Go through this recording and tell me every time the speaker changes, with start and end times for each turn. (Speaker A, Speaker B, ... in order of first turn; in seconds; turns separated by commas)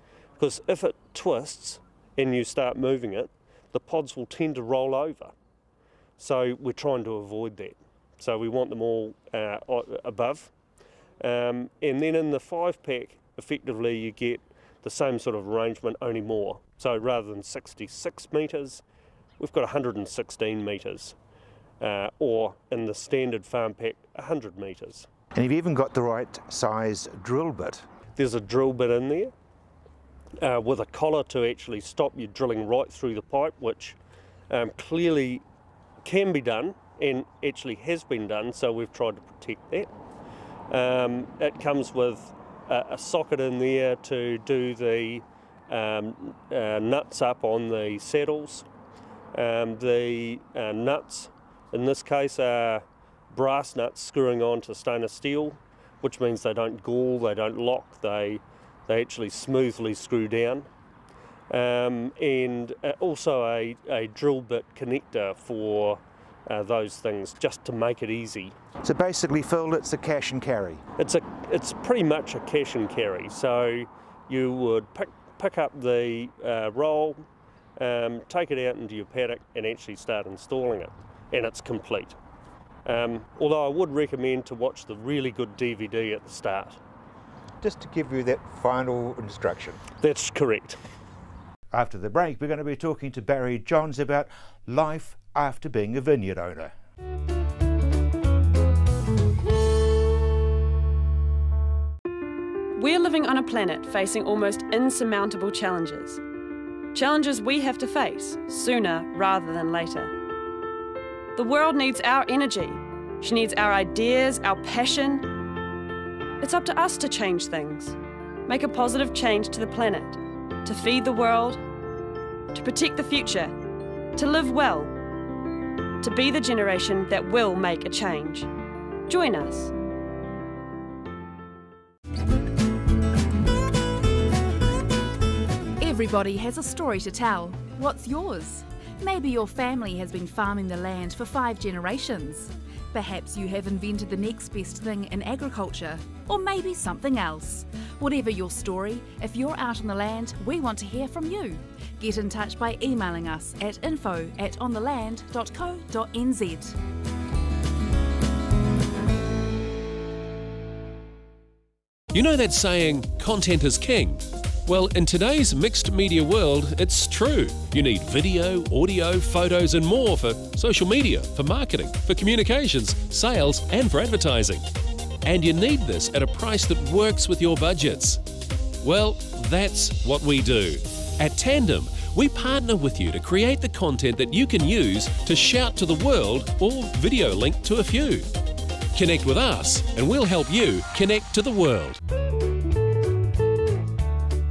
Speaker A: 0.4-5.3, Speaker A: 6.2-10.5, Speaker A: 11.2-18.8, Speaker A: 19.4-21.2, Speaker A: 21.8-25.1, Speaker B: 25.3-27.9, Speaker A: 28.1-29.3, Speaker A: 30.4-34.0, Speaker A: 34.5-35.4, Speaker A: 36.0-39.9, Speaker A: 40.7-48.7, Speaker A: 49.3-60.7, Speaker A: 61.5-68.5, Speaker B: 68.8-70.8, Speaker A: 71.0-82.2, Speaker A: 82.8-86.8, Speaker B: 87.6-89.8, Speaker A: 90.0-90.8, Speaker B: 91.7-96.7, Speaker C: 102.7-106.2, Speaker C: 106.9-110.1, Speaker C: 111.3-115.3, Speaker C: 116.4-121.6, Speaker C: 122.5-123.5, Speaker C: 124.2-124.9, Speaker C: 126.0-128.5, Speaker C: 129.1-129.7, Speaker D: 135.8-156.8, Speaker E: 162.1-174.7, Speaker E: 175.2-178.2, Speaker E: 178.8-188.3, Speaker E: 188.9-192.0